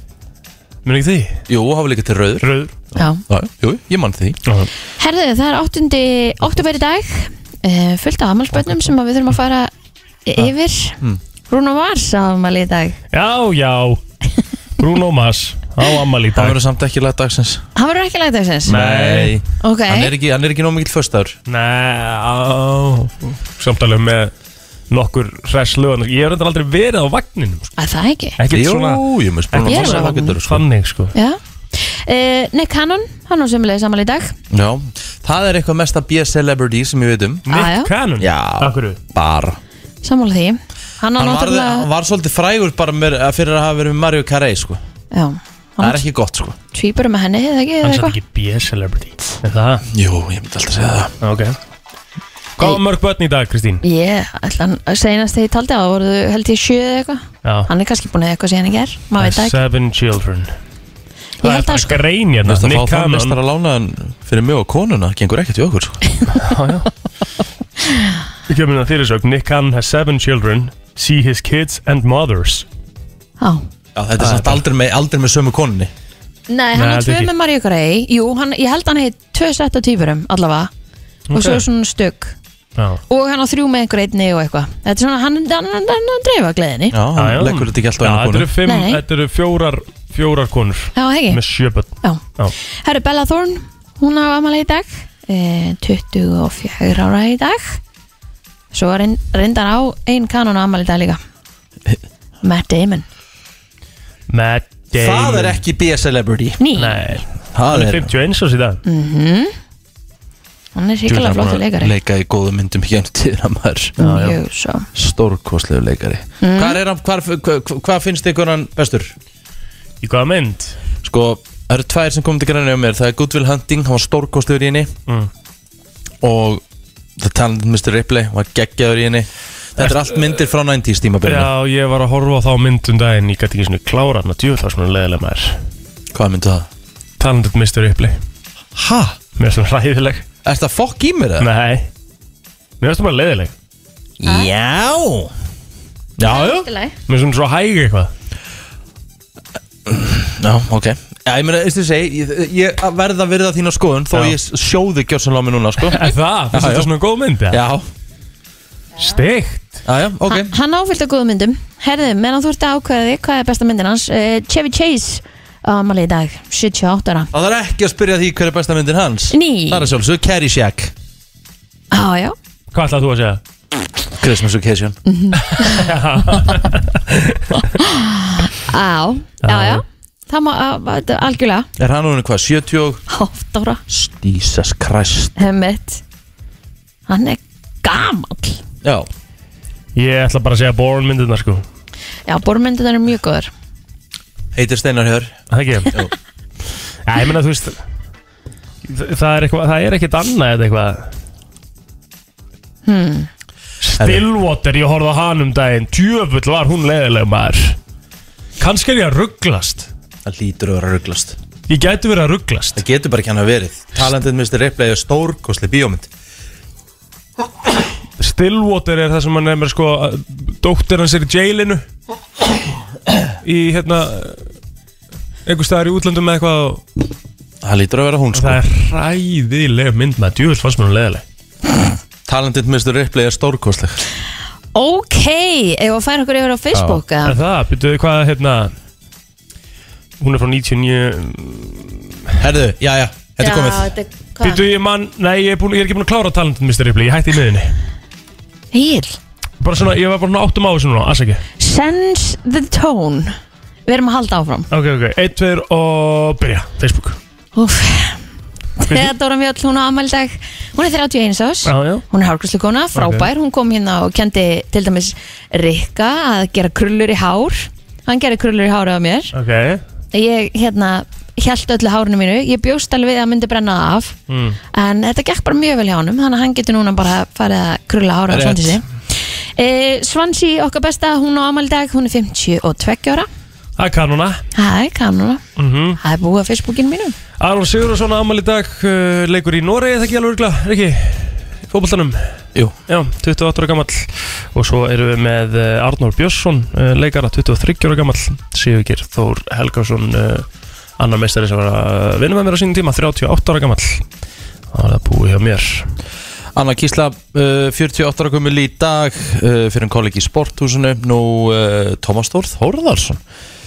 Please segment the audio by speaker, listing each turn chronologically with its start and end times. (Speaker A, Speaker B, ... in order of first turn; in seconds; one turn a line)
Speaker A: 0.8-1.4
Speaker B: 1.5-2.5
Speaker A: 2.4-2.7
Speaker C: 3.0-3.2
Speaker B: 3.3-4.4
Speaker C: 5.0-9.7
Speaker A: 8.6-8.9
Speaker C: 10.3-11.0
Speaker C: 11.5-13.0
Speaker A: 13.1-14.0
Speaker A: 14.8-16.6
Speaker B: 16.3-17.6
Speaker C: 17.8-18.8
Speaker B: 18.7-21.4
Speaker A: 18.7-19.4
Speaker C: 19.6-20.1
Speaker A: 21.5-24.3
Speaker A: 24.9-27.7
Speaker C: 27.8-28.4
Speaker A: 28.4-31.1
Speaker B: 28.5-30.6
Speaker C: 29.6-30.4
Speaker C: 31.1-34.3
Speaker B: 34.5-37.5
Speaker A: 37.5-39.0
Speaker C: 37.5-37.9
Speaker B: 38.2-39.6
Speaker C: 40.0-41.9
Speaker B: 41.2-44.8
Speaker C: 45.1-46.0
Speaker B: 45.8-46.6
Speaker C: 46.7-48.2
Speaker A: 47.8-49.9
Speaker B: 49.9-51.1
Speaker A: 51.2-51.5
Speaker A: 52.6-53.8
Speaker C: 53.8-59.6
Speaker A: 57.4-57.7
Speaker A: 59.2-60.5
Speaker C: 61.4-62.0
Speaker A: 61.4-63.4
Speaker B: 62.4-66.0
Speaker A: 66.3-66.9
Speaker A: 68.5-72.7
Speaker B: 74.0-75.9
Speaker A: 74.2-74.6
Speaker C: 76.5-80.7
Speaker A: 76.8-77.3
Speaker A: 81.3-81.7
Speaker C: 81.3-82.4
Speaker C: 83.1-87.0
Speaker B: 86.9-88.5
Speaker A: 87.2-92.5
Speaker C: 88.7-89.0
Speaker C: 91.0-91.4
Speaker C: 92.8-97.8
Speaker C: 98.7-101.2
Speaker C: 102.4-103.0
Speaker A: 104.3-105.6
Speaker B: 104.9-106.6
Speaker C: 106.6-107.0
Speaker A: 106.8-108.8
Speaker B: 107.5-108.1
Speaker C: 108.8-109.5
Speaker C: 110.8-111.9
Speaker B: 111.1-114.4
Speaker C: 114.0-114.9
Speaker B: 114.9-119.1
Speaker C: 116.4-116.8
Speaker A: 120.0-120.8
Speaker B: 121.0-124.9
Speaker B: 126.2-126.6
Speaker B: 127.2-131.5
Speaker A: 129.8-130.4
Speaker A: 131.2-135.6
Speaker B: 136.1-136.7
Speaker A: 137.2-138.2
Speaker B: 138.8-139.2
Speaker A: 139.4-140.2
Speaker B: 140.4-141.5
Speaker A: 141.4-141.9
Speaker A: 142.8-143.5
Speaker B: 144.2-145.3
Speaker C: 144.3-144.5
Speaker B: 146.2-146.7
Speaker C: 146.2-146.9
Speaker A: 147.1-148.1
Speaker B: 149.9-156.9
Speaker A: 155.9-157.6
Speaker B: 157.5-157.9
Speaker A: 159.0-159.8
Speaker B: 159.8-160.5
Speaker C: 160.3-167.3
Speaker B: 167.3-170.9
Speaker C: 169.3-169.9
Speaker C: 171.9-172.4
Speaker A: 172.7-173.4
Speaker B: 174.2-175.0
Speaker C: 175.1-176.5
Speaker A: 175.5-177.6
Speaker C: 177.6-181.7
Speaker A: 179.4-179.8
Speaker B: 181.8-183.0
Speaker C: 183.1-183.8
Speaker B: 183.9-185.4
Speaker C: 185.4-186.0
Speaker C: 187.1-188.6
Speaker B: 188.8-189.1
Speaker A: 189.9-191.6
Speaker C: 192.3-193.5
Speaker B: 194.6-196.1
Speaker A: 195.5-195.9
Speaker A: 197.1-197.8
Speaker A: 198.9-201.1
Speaker C: 202.8-203.3
Speaker A: 203.8-207.8
Speaker B: 204.0-204.2
Speaker A: 208.6-209.9
Speaker B: 210.2-211.4
Speaker A: 211.7-212.8
Speaker B: 212.8-216.1
Speaker A: 218.2-221.8
Speaker A: 223.4-224.4
Speaker A: 225.5-226.8
Speaker B: 227.6-228.6
Speaker A: 228.3-231.2
Speaker B: 232.3-234.0
Speaker C: 234.8-237.4
Speaker B: 236.7-237.0
Speaker A: 237.2-238.7
Speaker A: 240.2-242.3
Speaker B: 242.4-243.9
Speaker C: 243.4-244.6
Speaker A: 244.4-247.7
Speaker C: 248.7-249.2
Speaker A: 249.6-251.4
Speaker C: 251.6-253.3
Speaker C: 253.9-254.7
Speaker A: 254.7-257.2
Speaker C: 257.6-258.2
Speaker C: 258.8-269.3
Speaker A: 261.6-262.1
Speaker A: 262.9-263.3
Speaker A: 269.3-269.8
Speaker C: 270.1-274.2
Speaker A: 274.3-274.6
Speaker C: 274.7-283.3
Speaker B: 278.3-278.8
Speaker A: 283.8-284.4
Speaker C: 284.6-285.4
Speaker A: 285.6-286.0
Speaker C: 286.0-287.1
Speaker A: 287.4-292.4
Speaker A: 292.9-300.5
Speaker A: 301.0-304.0
Speaker A: 304.7-305.9
Speaker B: 306.6-313.2